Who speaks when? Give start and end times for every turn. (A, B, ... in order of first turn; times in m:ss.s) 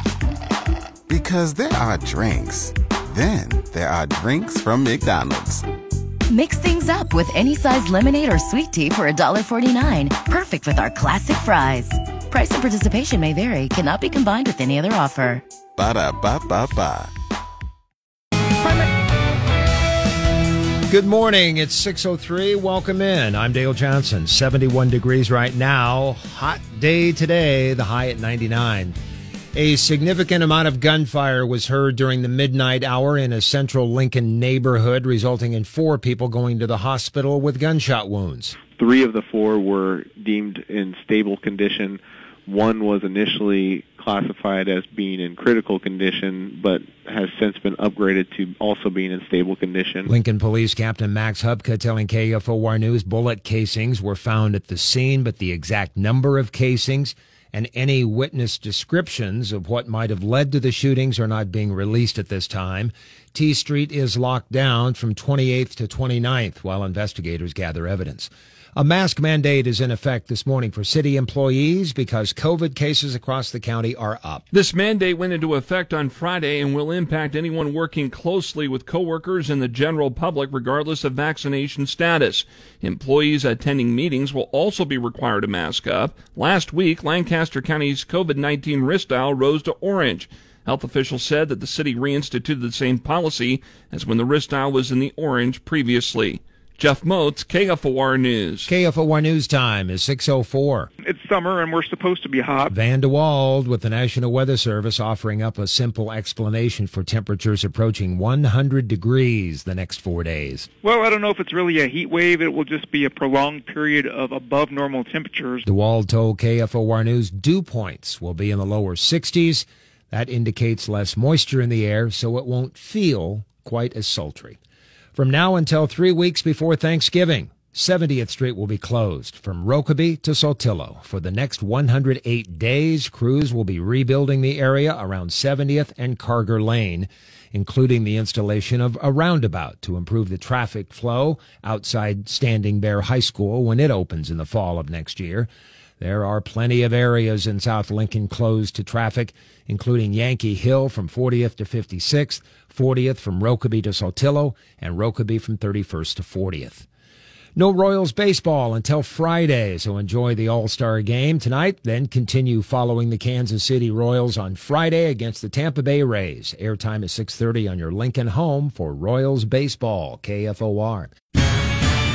0:01.1-0:05.6 A
0:06.3-0:15.4 B
0:15.8-0:17.1 A
0:20.9-0:29.0 C
0:29.5-0:38.6 C
0:38.7-0:50.1 D
0:50.1-1:14.4 C
1:14.5-1:38.7 E
1:38.6-1:40.9 C
1:41.0-1:42.7 F
1:42.7-1:50.7 C
1:50.8-1:55.6 F
1:55.6-2:04.6 C
2:05.1-2:36.9 C
2:37.6-2:51.1 C